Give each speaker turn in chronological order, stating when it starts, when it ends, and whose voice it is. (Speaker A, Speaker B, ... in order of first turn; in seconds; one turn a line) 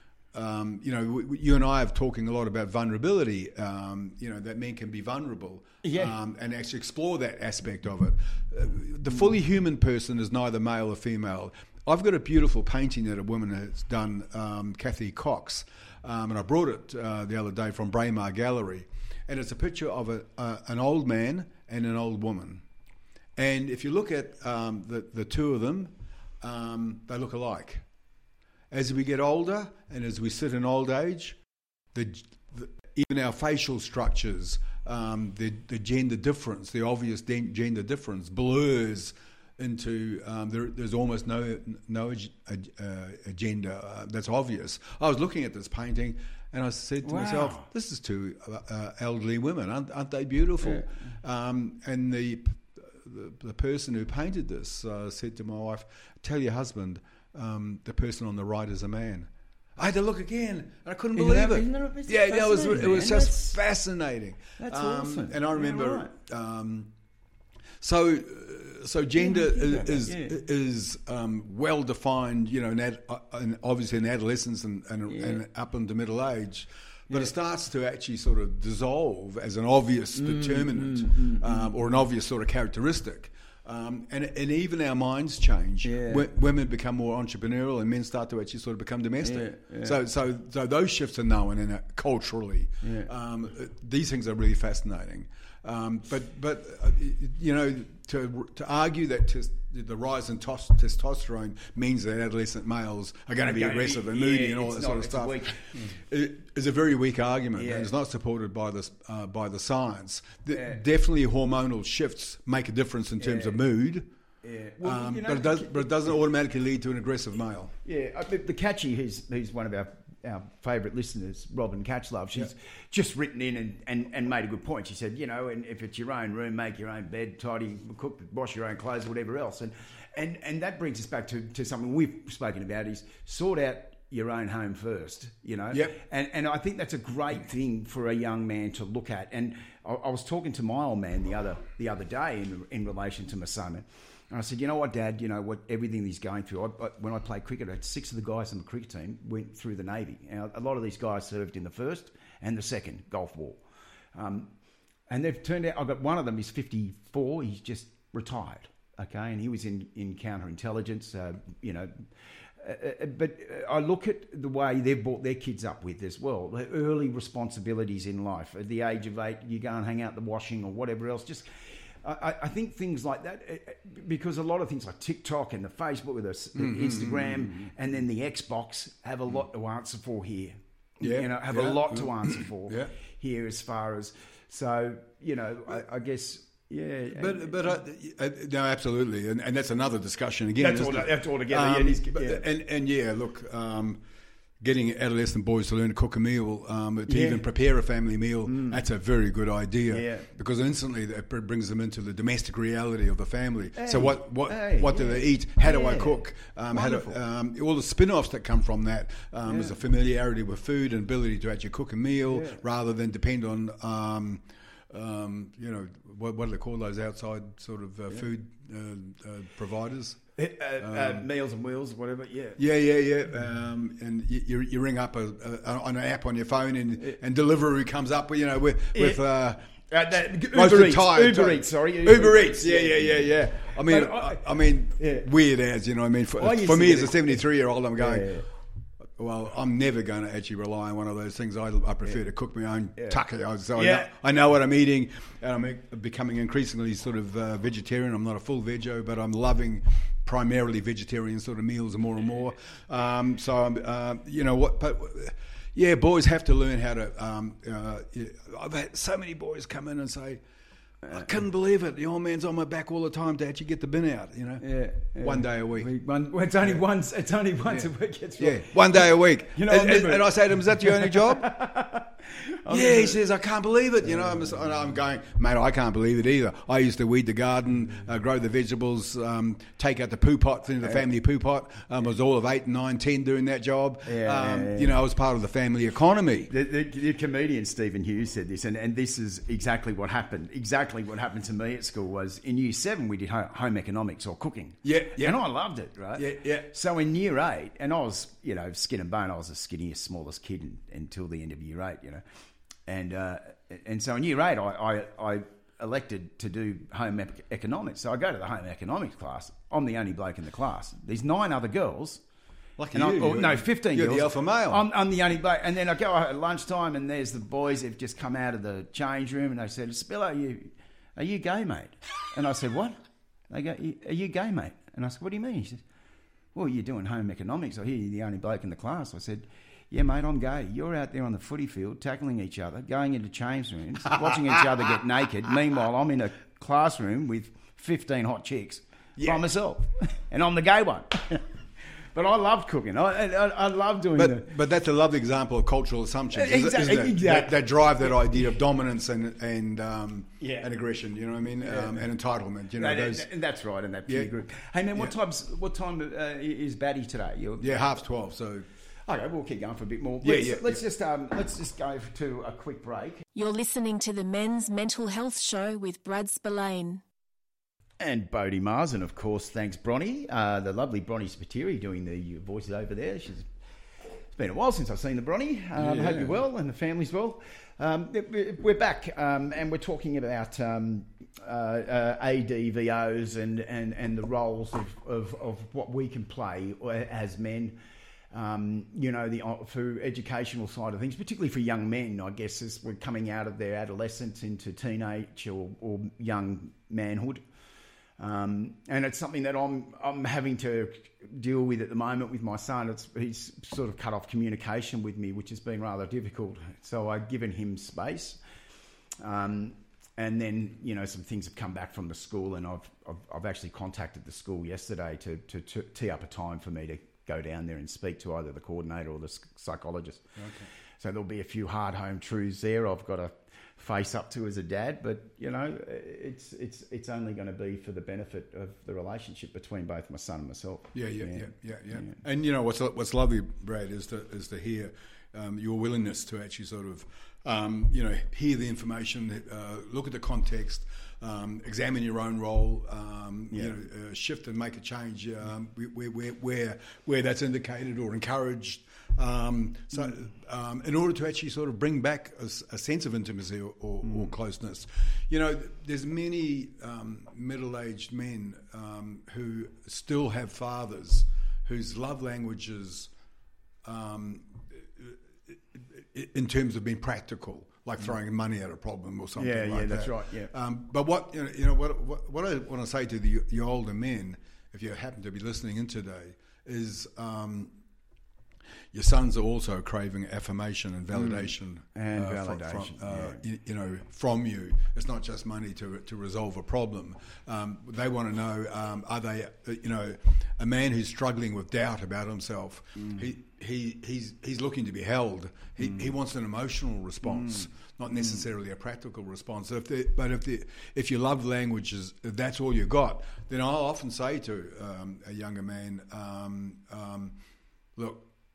Speaker A: 0.3-22.6
Speaker B: 5.8-6.1
Speaker A: 23.4-27.9
Speaker A: 28.7-31.4
Speaker A: 31.9-66.9
Speaker B: 47.0-47.7
Speaker B: 50.6-51.1
Speaker B: 61.1-63.6
Speaker B: 64.6-66.1
Speaker A: 67.8-114.1
Speaker B: 69.2-70.4
Speaker B: 75.1-75.4
Speaker B: 80.2-81.7
Speaker B: 85.8-86.3
Speaker B: 89.2-90.0
Speaker B: 92.8-93.1
Speaker B: 103.4-106.0
Speaker B: 107.5-107.9
Speaker B: 110.5-110.8
Speaker B: 113.2-113.6
Speaker B: 114.4-115.9
Speaker A: 114.8-117.7
Speaker B: 117.8-153.6
Speaker B: 154.1-154.5
Speaker B: 155.1-162.1
Speaker B: 162.6-187.8
Speaker A: 176.5-177.7
Speaker A: 181.0-182.9
Speaker A: 187.1-194.0
Speaker B: 190.6-192.4
Speaker A: 194.6-220.2
Speaker B: 197.1-197.4
Speaker B: 198.5-198.8
Speaker B: 199.9-200.3
Speaker B: 203.8-207.2
Speaker B: 209.5-209.7
Speaker B: 212.3-212.6
Speaker B: 220.4-222.6
Speaker A: 220.8-221.2
Speaker A: 222.6-238.4
Speaker B: 228.9-229.2
Speaker B: 229.9-235.3
Speaker B: 236.4-237.4
Speaker B: 238.0-238.4
Speaker A: 239.1-260.4
Speaker B: 243.7-244.1
Speaker B: 261.0-261.3
Speaker A: 261.1-264.6
Speaker B: 264.6-273.2
Speaker A: 265.2-265.9
Speaker A: 268.4-271.5
Speaker A: 272.7-286.5
Speaker B: 274.0-274.6
Speaker B: 284.0-284.9
Speaker B: 286.5-302.2
Speaker A: 294.8-295.4
Speaker A: 296.1-296.7
Speaker B: 302.9-312.2
Speaker A: 312.8-314.9
Speaker B: 312.9-323.0
Speaker B: 323.5-325.8
Speaker B: 326.5-344.5
Speaker A: 334.2-334.6
Speaker A: 339.2-339.4
Speaker A: 344.1-353.3
Speaker B: 346.3-348.4
Speaker B: 350.4-350.7
Speaker B: 351.6-352.1
Speaker B: 352.8-357.8
Speaker A: 357.6-358.6
Speaker B: 359.1-363.2
Speaker A: 360.2-360.8
Speaker C: 363.3-367.0
Speaker B: 368.0-373.5
Speaker B: 374.3-387.8
Speaker A: 375.8-376.4
Speaker B: 388.3-397.4
Speaker B: 398.2-408.4
Speaker B: 409.2-420.4
Speaker A: 420.4-420.7
Speaker B: 421.0-432.2
Speaker A: 430.9-463.1
Speaker A: 463.8-477.7
Speaker B: 469.4-470.5
Speaker A: 478.9-507.4
Speaker B: 481.1-483.4
Speaker A: 507.9-508.3